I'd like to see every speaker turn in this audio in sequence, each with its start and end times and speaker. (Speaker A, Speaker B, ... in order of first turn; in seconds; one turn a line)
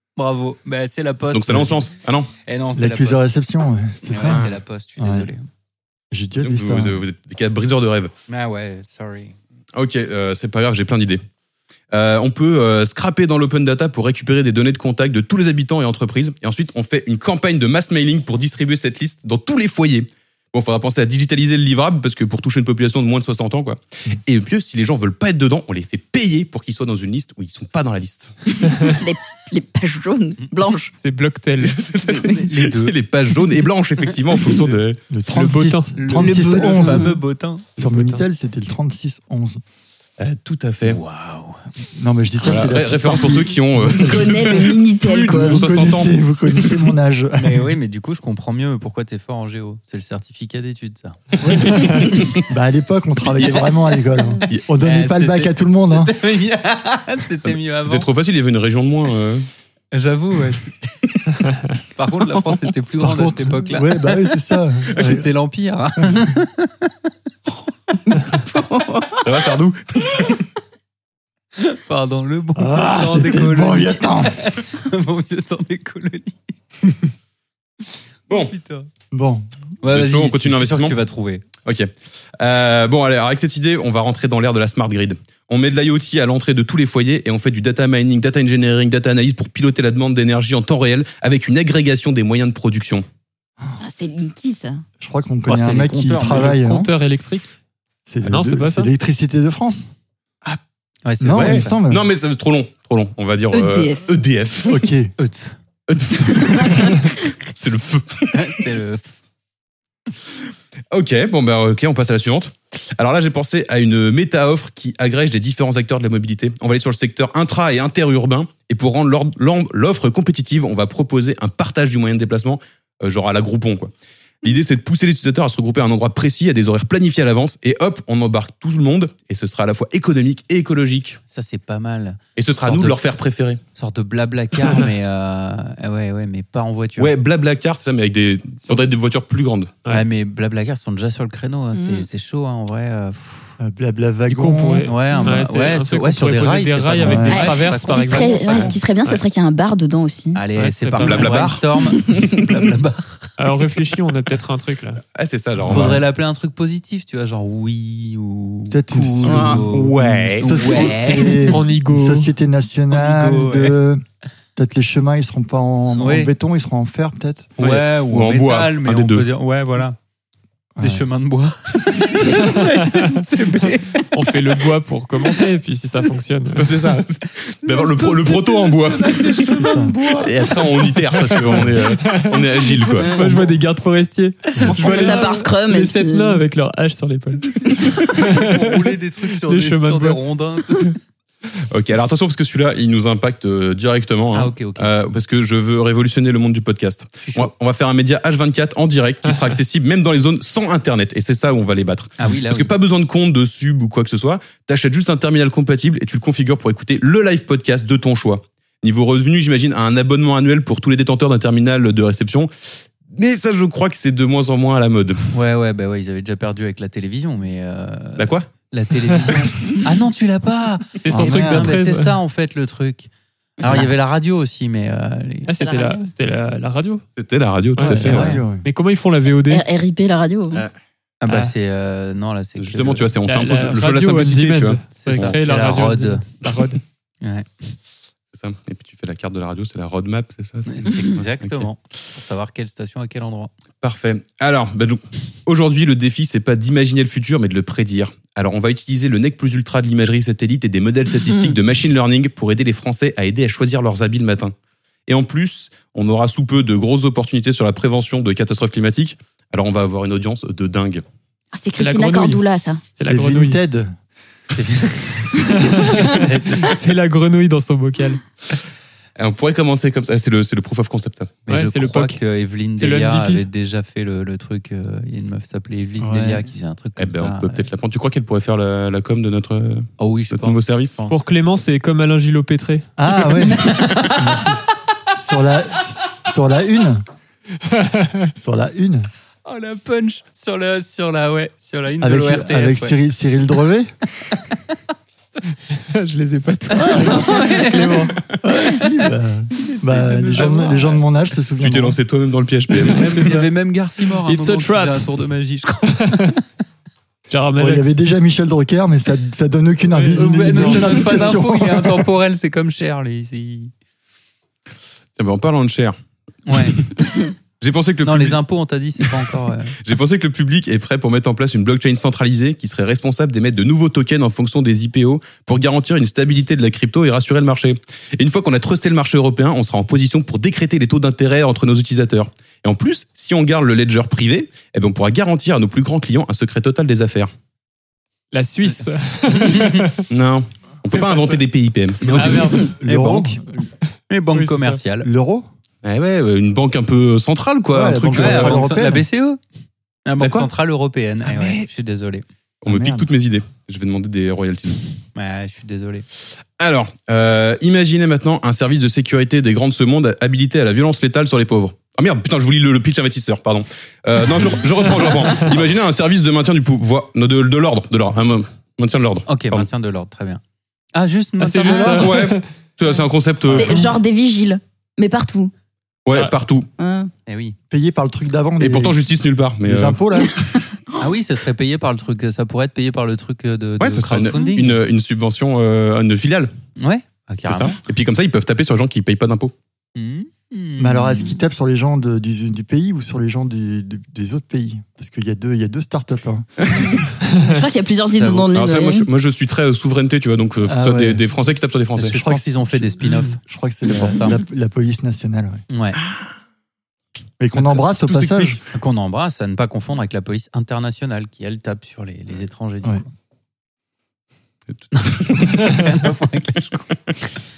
Speaker A: 0.2-3.3
Speaker B: 1.3-2.3
Speaker C: 2.8-4.5
Speaker A: 4.1-5.5
Speaker B: 4.2-4.5
Speaker C: 5.0-5.3
Speaker C: 6.1-7.0
Speaker B: 6.4-8.1
Speaker A: 8.3-9.4
Speaker B: 9.8-11.2
Speaker B: 11.9-28.3
Speaker D: 28.7-30.9
Speaker E: 31.0-31.8
Speaker B: 31.6-35.0
Speaker A: 32.1-33.0
Speaker A: 34.5-34.8
Speaker C: 35.1-37.1
Speaker E: 35.3-36.2
Speaker A: 36.0-38.2
Speaker C: 37.8-39.6
Speaker B: 40.2-41.0
Speaker A: 40.9-41.6
Speaker C: 42.0-44.6
Speaker B: 42.4-46.8
Speaker D: 43.9-45.7
Speaker C: 45.3-47.7
Speaker A: 47.4-52.2
Speaker C: 51.4-56.1
Speaker B: 51.8-52.5
Speaker A: 53.4-53.6
Speaker A: 54.8-58.1
Speaker B: 57.8-59.5
Speaker A: 59.9-61.1
Speaker A: 61.9-64.3
Speaker C: 63.0-65.3
Speaker A: 64.8-66.9
Speaker D: 68.1-69.2
Speaker B: 69.2-70.3
Speaker A: 71.6-76.4
Speaker C: 72.6-74.4
Speaker B: 78.3-78.5
Speaker A: 78.3-78.9
Speaker C: 79.1-79.5
Speaker A: 79.8-81.5
Speaker B: 79.9-81.0
Speaker B: 81.7-93.0
Speaker D: 93.8-94.8
Speaker C: 95.0-96.9
Speaker A: 95.5-96.6
Speaker E: 96.3-97.5
Speaker C: 98.1-99.9
Speaker E: 98.2-98.9
Speaker A: 101.0-101.8
Speaker C: 101.2-102.0
Speaker B: 101.3-104.9
Speaker D: 103.5-104.0
Speaker C: 104.7-105.1
Speaker A: 105.2-105.6
Speaker B: 105.9-108.6
Speaker A: 108.3-109.2
Speaker B: 110.9-123.9
Speaker B: 124.4-131.2
Speaker A: 131.3-133.0
Speaker B: 132.4-133.6
Speaker A: 133.8-137.1
Speaker B: 137.0-139.7
Speaker A: 139.9-143.6
Speaker D: 141.7-142.1
Speaker C: 143.6-144.9
Speaker E: 144.3-149.2
Speaker A: 144.9-148.8
Speaker C: 147.0-147.5
Speaker D: 147.3-150.4
Speaker A: 150.3-153.3
Speaker E: 150.6-151.5
Speaker B: 151.0-151.6
Speaker D: 152.0-152.5
Speaker E: 153.4-155.0
Speaker B: 155.1-156.0
Speaker A: 155.6-161.6
Speaker C: 155.7-156.0
Speaker C: 158.7-164.0
Speaker B: 159.2-161.2
Speaker E: 161.5-162.3
Speaker A: 162.9-163.8
Speaker C: 164.6-167.6
Speaker A: 165.9-166.3
Speaker B: 167.6-169.3
Speaker A: 167.6-170.0
Speaker C: 170.8-171.1
Speaker A: 170.8-174.1
Speaker E: 172.4-173.0
Speaker E: 173.6-176.8
Speaker B: 176.6-179.3
Speaker A: 177.6-181.4
Speaker C: 179.6-180.0
Speaker B: 180.2-183.2
Speaker E: 181.5-188.9
Speaker C: 184.6-184.9
Speaker D: 184.7-186.4
Speaker A: 184.9-185.3
Speaker A: 187.6-191.0
Speaker E: 189.4-190.2
Speaker B: 191.7-212.5
Speaker A: 194.3-194.9
Speaker A: 197.2-197.5
Speaker E: 199.3-199.5
Speaker A: 202.2-202.7
Speaker B: 213.1-215.2
Speaker A: 215.3-223.1
Speaker B: 218.2-218.5
Speaker E: 221.0-222.2
Speaker C: 221.1-221.8
Speaker D: 223.6-223.9
Speaker A: 223.6-225.5
Speaker E: 225.5-227.0
Speaker D: 225.6-226.0
Speaker B: 227.2-228.3
Speaker E: 227.8-229.7
Speaker C: 227.9-228.7
Speaker A: 228.0-228.4
Speaker D: 229.5-230.6
Speaker A: 231.2-233.1
Speaker E: 231.3-231.5
Speaker B: 232.6-235.4
Speaker E: 233.3-236.8
Speaker A: 234.9-236.3
Speaker A: 237.2-237.7
Speaker B: 238.3-241.7
Speaker A: 240.7-243.5
Speaker B: 243.8-254.5
Speaker B: 255.1-261.0
Speaker D: 261.5-262.8
Speaker E: 261.8-262.4
Speaker E: 263.0-263.6
Speaker C: 263.0-263.9
Speaker A: 264.5-266.7
Speaker E: 265.4-268.2
Speaker B: 269.2-271.4
Speaker A: 271.5-277.7
Speaker E: 271.5-272.2
Speaker E: 272.8-273.4
Speaker C: 276.0-276.5
Speaker B: 277.0-281.0
Speaker A: 280.0-281.2
Speaker E: 281.1-282.9
Speaker C: 283.0-284.6
Speaker A: 283.8-284.1
Speaker C: 285.1-287.1
Speaker E: 287.8-288.3
Speaker C: 288.4-289.1
Speaker A: 289.5-293.0
Speaker C: 292.0-293.9
Speaker E: 295.9-298.1
Speaker C: 296.8-297.9
Speaker A: 296.8-298.1
Speaker C: 298.4-302.0
Speaker A: 299.6-301.0
Speaker B: 301.6-303.1
Speaker E: 302.8-303.5
Speaker A: 302.9-306.4
Speaker E: 304.3-305.1
Speaker E: 306.0-306.4
Speaker E: 307.3-307.9
Speaker C: 307.6-312.1
Speaker E: 309.9-311.4
Speaker A: 310.2-313.7
Speaker B: 315.2-316.0
Speaker A: 316.5-316.8
Speaker B: 316.6-317.0
Speaker B: 317.6-318.4
Speaker A: 318.0-319.8
Speaker B: 319.8-337.3
Speaker E: 338.3-340.0
Speaker A: 338.7-339.9
Speaker B: 340.1-342.4
Speaker E: 340.9-341.4
Speaker A: 342.0-343.4
Speaker E: 342.1-342.8
Speaker C: 342.2-343.7
Speaker A: 344.1-345.1
Speaker E: 344.3-344.8
Speaker C: 345.0-345.5
Speaker B: 345.8-348.6
Speaker C: 347.7-349.1
Speaker A: 348.1-349.4
Speaker A: 350.1-352.2
Speaker B: 350.2-350.5
Speaker B: 351.3-351.7
Speaker B: 352.6-354.8
Speaker C: 352.7-353.1
Speaker A: 355.1-356.1
Speaker B: 356.6-369.7
Speaker A: 369.3-370.4
Speaker A: 370.9-372.1
Speaker E: 371.4-372.4
Speaker B: 371.7-373.9
Speaker C: 373.4-374.0
Speaker D: 373.5-375.5
Speaker B: 376.1-376.7
Speaker D: 376.8-377.1
Speaker A: 377.3-377.6
Speaker C: 377.7-379.0
Speaker B: 378.6-380.0
Speaker C: 379.6-380.4
Speaker A: 381.0-384.8
Speaker B: 383.8-386.5
Speaker A: 386.8-387.8
Speaker B: 387.4-389.5
Speaker A: 390.0-391.4
Speaker C: 390.8-397.0
Speaker B: 396.6-396.9
Speaker D: 396.7-399.1
Speaker A: 398.1-398.5
Speaker B: 398.5-402.2
Speaker C: 400.6-401.2
Speaker A: 402.0-404.4
Speaker C: 402.1-405.6
Speaker E: 403.0-403.4
Speaker A: 405.7-406.0
Speaker B: 406.0-406.3
Speaker C: 407.4-408.6
Speaker B: 407.6-408.6
Speaker A: 408.7-413.1
Speaker B: 414.7-415.8
Speaker A: 414.9-417.4